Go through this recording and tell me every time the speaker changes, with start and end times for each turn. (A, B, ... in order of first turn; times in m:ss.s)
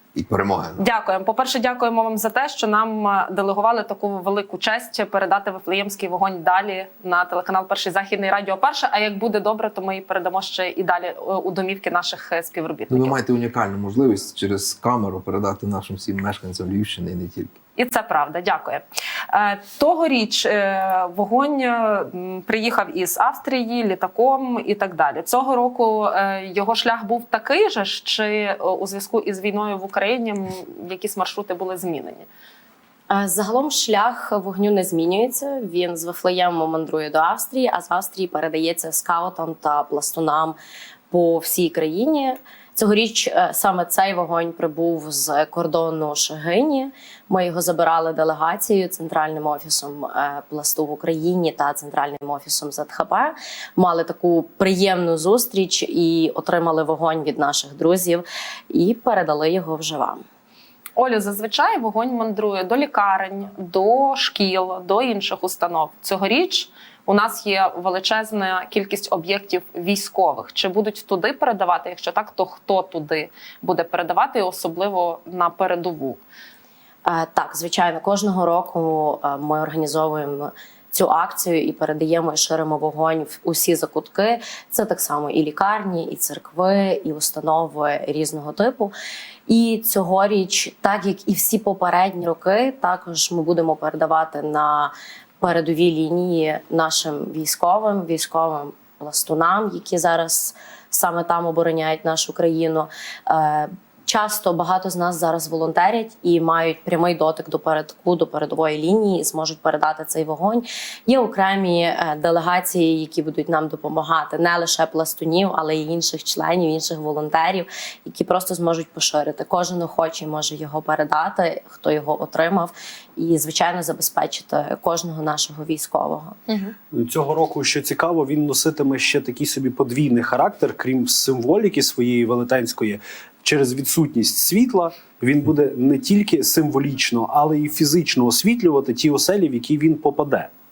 0:00.2-0:00.9 A
0:00.8-0:13.2 B
0:12.9-0:17.6 A
0:17.8-0:32.3 B
0:33.1-0:40.6 C
0:41.1-1:00.2 C
1:01.0-1:16.2 B
1:17.0-1:28.9 C
1:29.5-2:06.4 C
2:06.5-2:06.7 B
2:06.9-2:20.5 D